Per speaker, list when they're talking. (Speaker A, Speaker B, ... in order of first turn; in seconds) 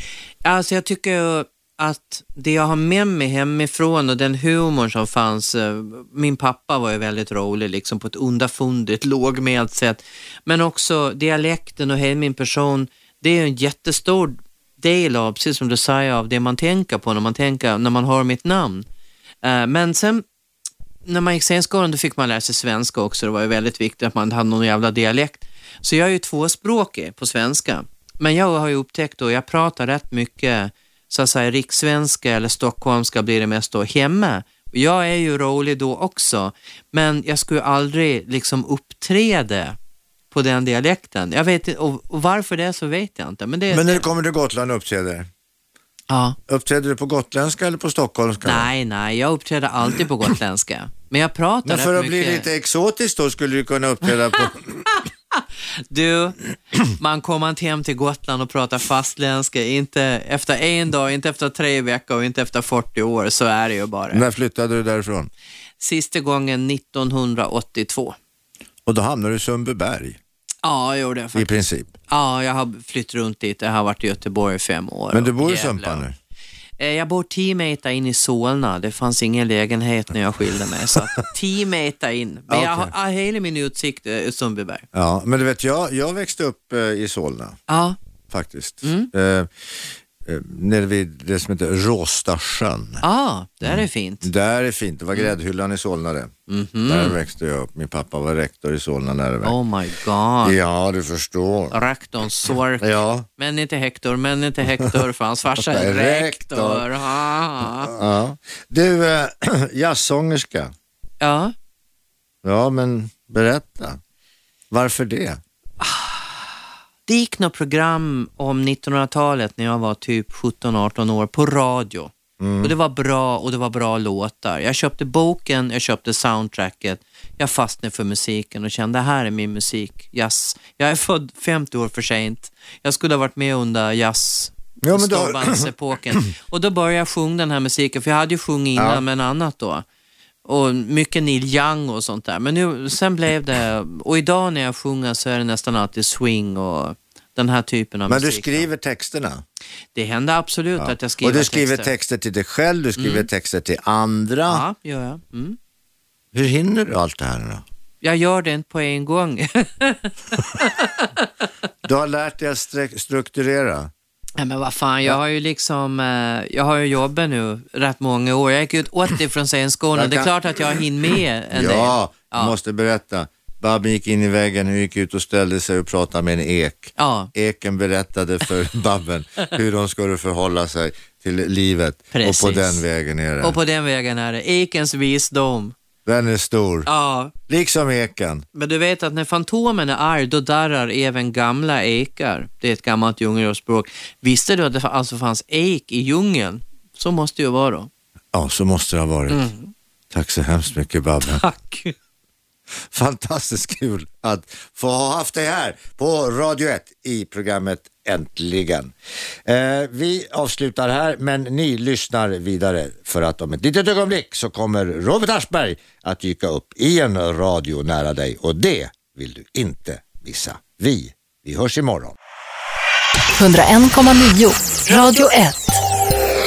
Speaker A: 0.4-18.9, 19.4-20.2, 21.1-39.8, 40.3-44.1, 46.1-46.4, 48.4-52.5, 54.9-64.2, 65.8-68.2, 70.6-71.5, 72.1-76.0, 76.8-84.9, 87.7-88.0, 88.8-89.1, 93.0-94.3, 96.5-97.2, 99.4-100.6, 101.7-107.9, 111.2-111.5, 115.8-116.5, 117.1-139.8, 140.4-148.7, 149.9-151.9, 153.0-153.3, 154.5-155.6, 158.0-161.3, 164.4-172.6, 177.0-177.3, 182.1-182.8, 183.4-185.7, 186.9-187.3, 188.5-197.9, 199.3-199.7, 201.2-201.9, 224.9-225.3
Speaker B: 43.7-45.3, 46.5-48.7, 51.6-54.9, 64.1-65.3, 68.9-70.2, 71.3-71.9, 75.1-76.1, 82.5-82.9, 84.9-87.6, 88.3-93.0, 93.6-96.3, 96.9-99.5, 100.4-101.8, 102.8-103.3, 105.6-106.9, 107.8-110.7, 112.4-114.0, 114.7-115.4, 122.4-122.7, 134.8-135.7, 138.8-139.0, 148.1-149.4, 150.8-154.7, 156.3-157.6, 161.8-163.9, 169.9-170.8, 171.5-183.6, 186.1-186.9, 187.5-188.4, 198.3-199.5, 200.1-201.4, 202.8-208.9, 209.4-222.2
Speaker C: 223.3-225.8